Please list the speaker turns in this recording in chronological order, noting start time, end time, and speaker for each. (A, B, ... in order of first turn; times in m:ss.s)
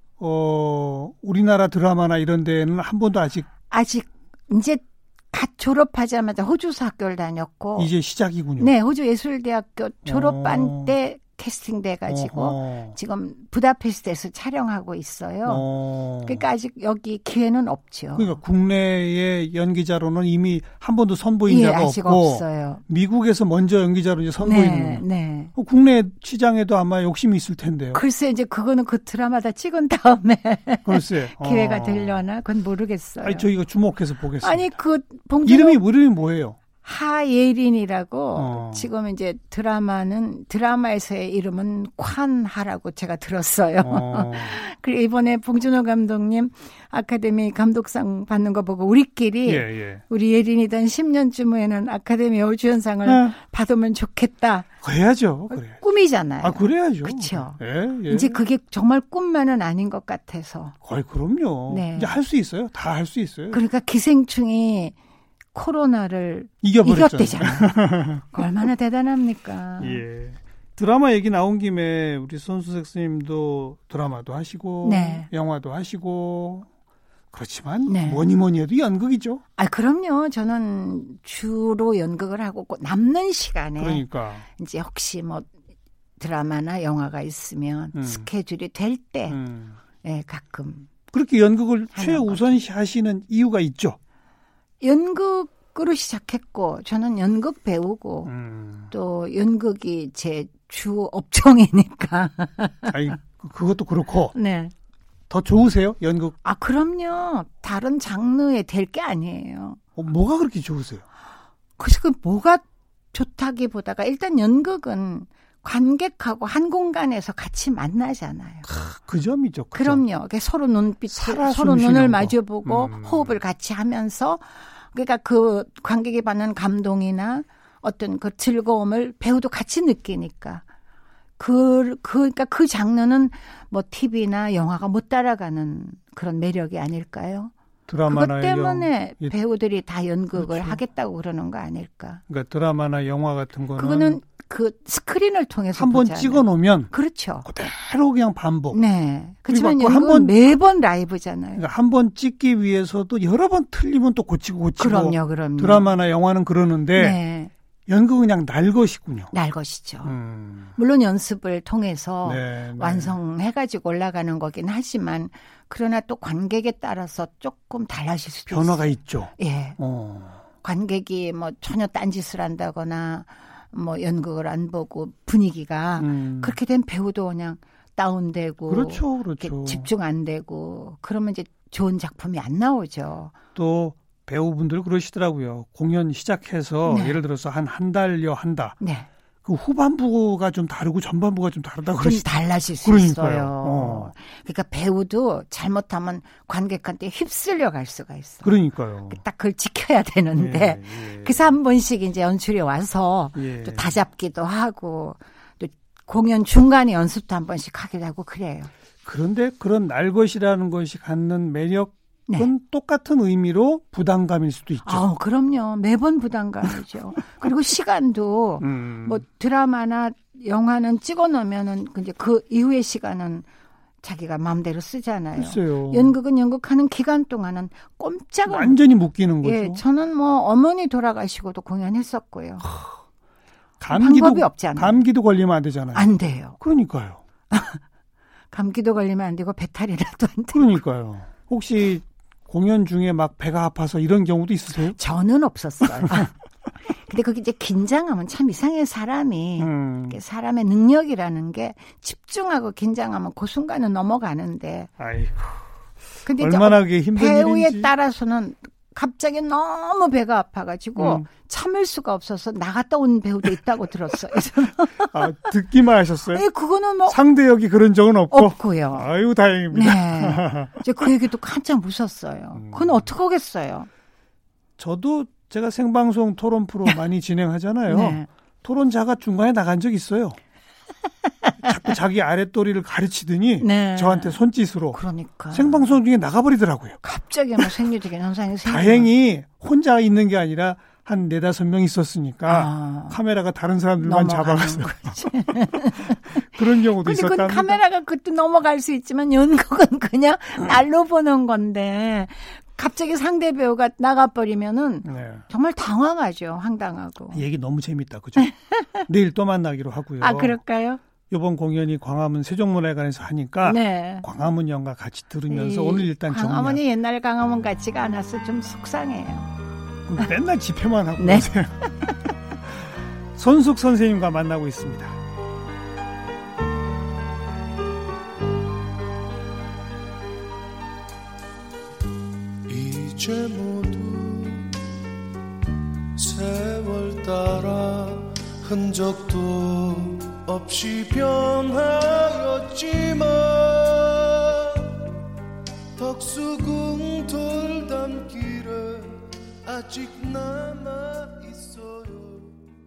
0:00.2-0:03.5 A
0:03.7-0:07.9 B
0:07.8-0:08.7 A
0:08.6-0:15.6 B
0:10.1-0:10.9 A
0:12.1-0:13.0 A
0:15.4-0:16.5 A
0:16.2-0:18.4 B
0:18.2-0:28.0 A
0:21.5-0:22.8 B
0:24.4-0:25.5 B
0:27.9-0:33.5 B
0:30.8-0:32.2 A
0:33.2-0:34.7 A
0:34.4-0:35.8 B
0:35.4-0:36.6 A
0:36.8-0:54.7 B
0:38.4-0:38.9 A
0:43.8-0:44.6 A
0:49.5-0:50.0 A
0:53.0-0:53.4 A
0:54.8-0:55.8 A
0:55.5-1:00.8 B
0:56.4-0:58.4 A
1:00.8-1:03.6 A
1:01.7-1:02.2 B
1:03.5-1:05.0 B
1:05.5-1:10.0 B
1:06.6-1:08.3 A
1:09.8-1:16.7 A
1:14.8-1:15.3 B
1:17.3-1:19.4 A
1:17.9-1:18.2 B
1:19.6-1:25.5 B
1:23.8-1:24.5 A
1:26.2-1:29.4 B
1:27.9-1:28.3 A
1:29.3-1:29.8 A
1:30.0-1:30.9 B
1:31.1-1:34.0 A
1:32.0-1:32.6 B
1:34.8-1:38.3 B
1:38.3-1:38.9 A
1:38.9-1:43.0 B
1:42.9-1:44.4 A
1:44.3-1:44.7 B
1:45.3-1:46.4 A
1:46.4-1:49.8 B
1:50.0-1:51.0 A
1:51.8-1:58.7 B
1:58.7-2:00.0 A
1:59.7-2:10.6 B
2:01.1-2:03.4 A
2:11.4-2:17.5 B
2:17.9-2:19.4 A
2:18.1-2:22.2 B
2:20.4-2:20.8 A
2:22.3-2:24.2 A
2:23.8-2:27.5 B
2:25.7-2:26.9 A
2:27.4-2:28.8 A
2:28.7-2:31.6 B
2:29.5-2:30.3 A
2:31.6-2:37.2 A
2:34.8-2:35.9 B
2:37.0-2:37.5 B
2:37.9-2:39.3 A
2:39.3-2:40.1 B
2:40.0-2:40.8 A
2:40.8-2:49.8 B
2:42.2-2:43.2 A
2:48.5-2:50.4 A
2:50.6-3:03.4 B
2:56.0-2:56.6 A
2:58.7-2:59.9 A
3:03.6-3:08.8 A
3:06.9-3:07.2 B
3:08.8-3:09.1 B
3:09.4-3:12.3 A
3:12.0-3:18.6 B
3:12.8-3:14.1 A
3:18.4-3:19.2 A
3:19.1-3:28.7 B
3:20.4-3:21.5 A
3:23.4-3:23.9 A
3:29.0-3:35.0 A
3:34.9-3:43.5 B
3:38.6-3:39.2 A
3:44.0-3:48.8 B
3:45.4-3:46.2 A
3:48.5-3:49.8 A
3:49.4-3:52.7 B
3:53.8-3:57.2 A
3:53.9-3:55.0 B
3:56.0-3:56.6 B
3:57.5-3:57.8 B
3:58.5-4:00.8 B
4:00.5-4:05.0 A
4:04.9-4:06.3 B
4:05.8-4:06.2 A
4:06.9-4:14.9 B
4:09.6-4:10.2 A
4:15.0-4:15.6 A
4:16.2-4:25.3 B
4:16.4-4:17.9 A
4:21.0-4:21.3 A
4:25.0-4:26.5 A
4:26.3-4:27.2 B
4:27.1-4:30.8 A
4:28.3-4:29.1 B
4:29.7-4:33.9 B
4:32.6-4:33.1 A
4:34.8-4:40.4 A
4:37.9-4:38.3 B
4:41.6-4:45.0 A
4:43.6-4:44.4 B
4:44.9-4:45.9 B
4:45.5-4:47.0 A
4:47.0-4:49.1 B
4:48.7-4:55.1 A
4:52.5-4:53.2 B
4:54.0-5:07.4 B
4:56.1-4:57.8 A
5:05.0-5:05.4 A
5:07.3-5:08.5 A
5:08.4-5:09.0 B
5:09.1-5:10.6 A
5:10.2-5:11.0 B
5:11.3-5:16.8 A
5:13.6-5:14.3 B
5:15.5-5:19.5 B
5:20.1-5:22.3 A
5:21.2-5:21.5 B
5:23.4-5:25.2 A
5:32.7-5:34.8 C
5:36.2-5:45.0 C
5:46.0-5:52.6 C